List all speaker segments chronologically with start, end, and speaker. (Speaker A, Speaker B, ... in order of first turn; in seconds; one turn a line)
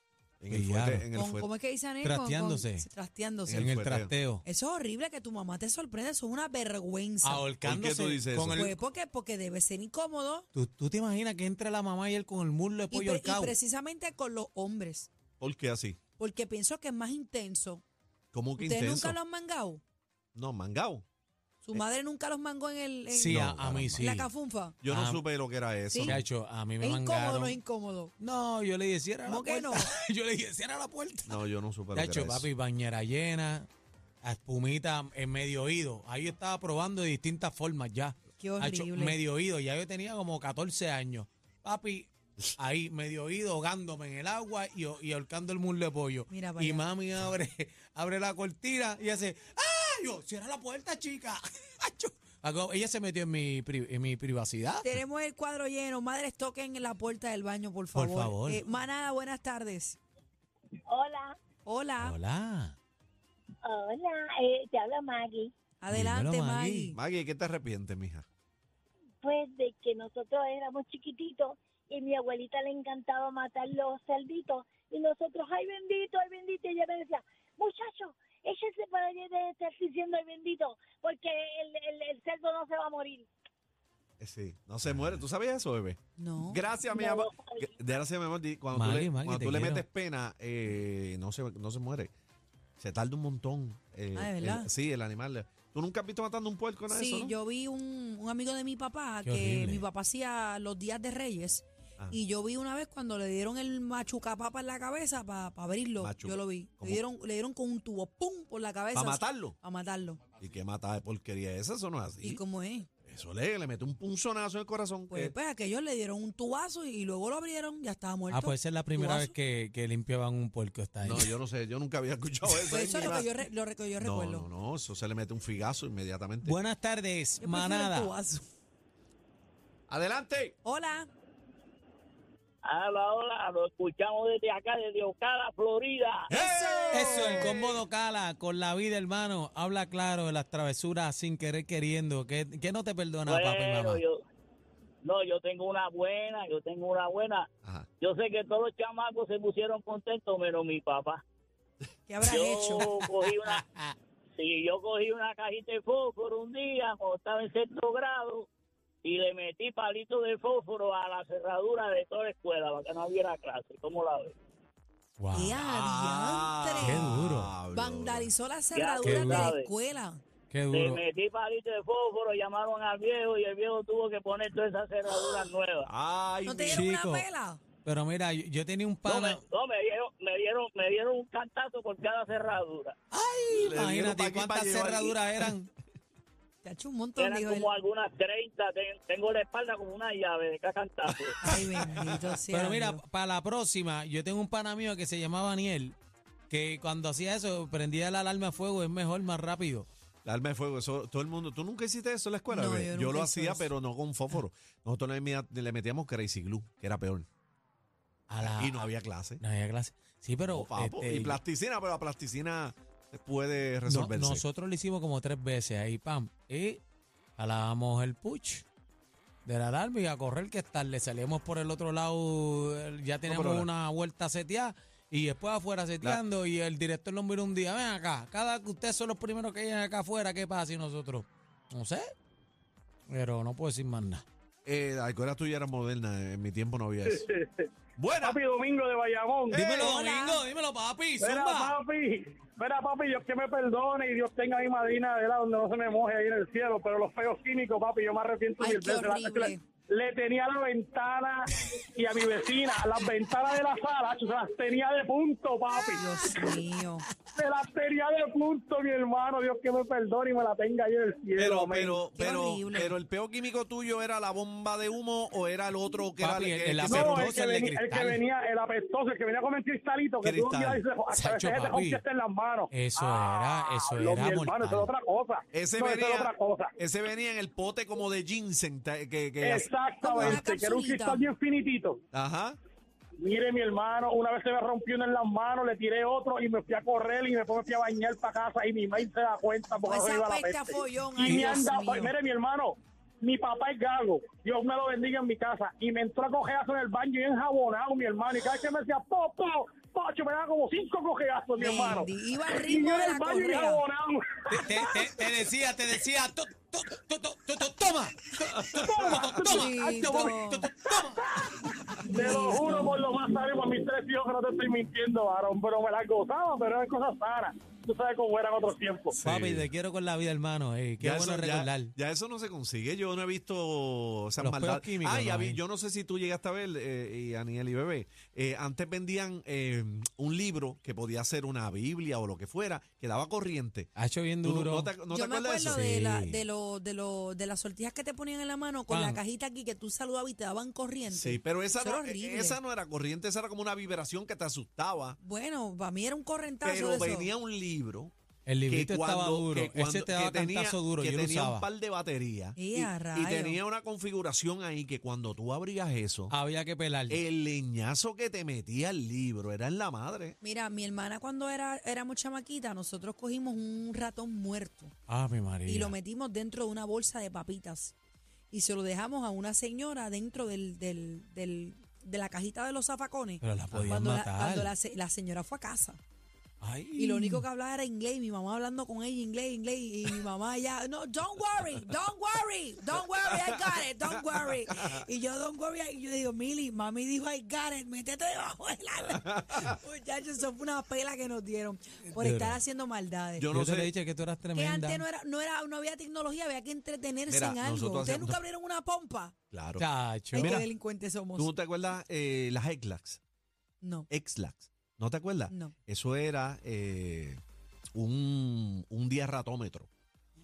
Speaker A: 0.4-1.5
Speaker B: 0.5-1.1
Speaker C: 1.1-3.7
Speaker B: 2.0-2.9
Speaker A: 3.5-4.1
Speaker B: 3.5-4.4
Speaker C: 4.4-7.5
Speaker B: 7.2-8.8
Speaker A: 7.6-8.7
Speaker C: 8.5-10.5
Speaker B: 10.6-13.6
Speaker C: 12.9-15.1
Speaker A: 15.4-16.0
Speaker C: 16.2-17.8
Speaker A: 18.3-19.2
Speaker C: 18.6-19.8
Speaker A: 20.4-21.1
Speaker C: 21.6-24.8
Speaker B: 23.1-24.3
Speaker A: 23.2-24.1
Speaker A: 24.8-26.2
Speaker B: 24.9-25.2
Speaker C: 25.9-26.2
Speaker B: 26.0-27.6
Speaker C: 26.8-28.1
Speaker B: 28.2-31.4
Speaker C: 29.2-29.9
Speaker A: 31.3-32.5
Speaker B: 31.9-33.7
Speaker B: 34.2-54.9
Speaker C: 38.4-39.2
Speaker C: 46.3-46.9
Speaker C: 54.8-60.0
Speaker B: 57.9-58.7
Speaker D: 60.9-61.4
Speaker C: 61.6-62.2
Speaker B: 62.0-62.8
Speaker D: 63.6-65.5
Speaker C: 65.8-67.0
Speaker B: 65.9-66.9
Speaker A: 66.9-68.3
Speaker D: 69.2-83.3
Speaker A: 84.2-92.1
Speaker C: 86.2-86.6
Speaker D: 86.8-88.0
Speaker B: 88.7-89.9
Speaker A: 92.8-97.3
Speaker C: 94.2-94.7
Speaker C: 96.9-110.2
Speaker B: 99.2-99.8
Speaker A: 106.0-107.0
Speaker A: 108.9-109.6
Speaker A: 110.4-112.4
Speaker C: 112.2-112.9
Speaker A: 113.0-115.3
Speaker C: 115.1-119.3
Speaker B: 118.3-121.4
Speaker A: 121.0-123.3
Speaker C: 122.7-124.5
Speaker A: 124.0-126.6
Speaker B: 126.4-128.1
Speaker C: 127.4-128.4
Speaker A: 129.9-130.6
Speaker C: 130.6-131.1
Speaker E: 132.6-136.3
Speaker A: 136.3-137.8
Speaker C: 136.3-137.6
Speaker B: 136.9-144.0
Speaker E: 143.3-144.2
Speaker E: 145.0-147.5
Speaker E: 148.0-151.2
Speaker C: 152.1-152.9
Speaker E: 152.2-153.6
Speaker B: 152.8-153.9
Speaker E: 154.4-158.5
Speaker E: 159.0-164.3
Speaker B: 165.2-165.6
Speaker C: 165.3-167.1
Speaker A: 165.6-168.3
Speaker B: 166.8-167.6
Speaker C: 167.7-170.2
Speaker E: 168.7-169.7
Speaker B: 169.0-169.5
Speaker B: 170.5-171.0
Speaker E: 170.7-175.9
Speaker A: 175.8-176.9
Speaker C: 176.4-177.6
Speaker B: 176.7-177.3
Speaker B: 177.8-179.4
Speaker E: 179.1-182.9
Speaker B: 183.1-185.7
Speaker A: 183.5-185.5
Speaker C: 186.6-187.7
Speaker E: 187.2-191.4
Speaker C: 191.4-193.0
Speaker B: 191.5-196.0
Speaker B: 196.5-199.9
Speaker A: 200.2-207.3
Speaker C: 202.5-203.7
Speaker B: 208.3-211.4
Speaker A: 208.4-209.4
Speaker A: 210.5-214.4
Speaker B: 213.9-216.8
Speaker B: 217.4-218.7
Speaker B: 219.4-232.1
Speaker A: 223.3-223.7
Speaker B: 233.1-234.2
Speaker A: 234.7-237.2
Speaker F: 237.1-239.9
Speaker A: 238.0-238.4
Speaker C: 239.5-240.4
Speaker B: 239.5-241.8
Speaker F: 241.2-256.0
Speaker C: 248.6-249.6
Speaker C: 255.8-257.1
Speaker F: 257.4-262.0
Speaker A: 261.4-267.4
Speaker C: 262.1-263.0
Speaker B: 266.2-268.2
Speaker F: 266.9-276.7
Speaker A: 270.2-270.8
Speaker B: 271.1-272.0
Speaker B: 272.7-274.9
Speaker A: 275.5-280.4
Speaker F: 279.4-282.0
Speaker C: 280.0-281.3
Speaker A: 282.1-282.6
Speaker F: 283.2-305.2
Speaker C: 289.8-292.1
Speaker B: 291.2-291.6
Speaker C: 301.6-303.9
Speaker B: 304.5-311.3
Speaker F: 308.8-309.6
Speaker C: 309.5-310.7
Speaker F: 310.8-319.1
Speaker C: 312.0-313.0
Speaker A: 319.1-319.7
Speaker B: 319.2-321.9
Speaker A: 321.0-333.9
Speaker B: 324.4-325.6
Speaker B: 334.0-334.9
Speaker A: 334.4-335.8
Speaker C: 335.1-342.6
Speaker B: 335.6-336.4
Speaker B: 338.9-339.2
Speaker A: 341.1-345.2
Speaker C: 345.2-347.3
Speaker A: 346.6-348.1
Speaker B: 348.5-351.7
Speaker A: 348.7-356.3
Speaker C: 352.6-353.6
Speaker B: 356.3-357.2
Speaker A: 357.1-360.4
Speaker C: 360.4-364.9
Speaker B: 365.1-365.9
Speaker C: 365.6-367.9
Speaker C: 368.5-376.0
Speaker B: 373.4-374.7
Speaker B: 376.6-377.4
Speaker C: 377.0-393.5
Speaker A: 389.2-389.6
Speaker B: 392.1-392.6
Speaker A: 393.4-393.9
Speaker B: 393.5-395.1
Speaker C: 394.5-399.4
Speaker A: 397.3-398.4
Speaker A: 399.5-400.7
Speaker B: 399.8-400.6
Speaker C: 400.3-401.5
Speaker A: 401.4-403.2
Speaker C: 403.8-404.1
Speaker A: 404.1-407.4
Speaker A: 408.0-409.9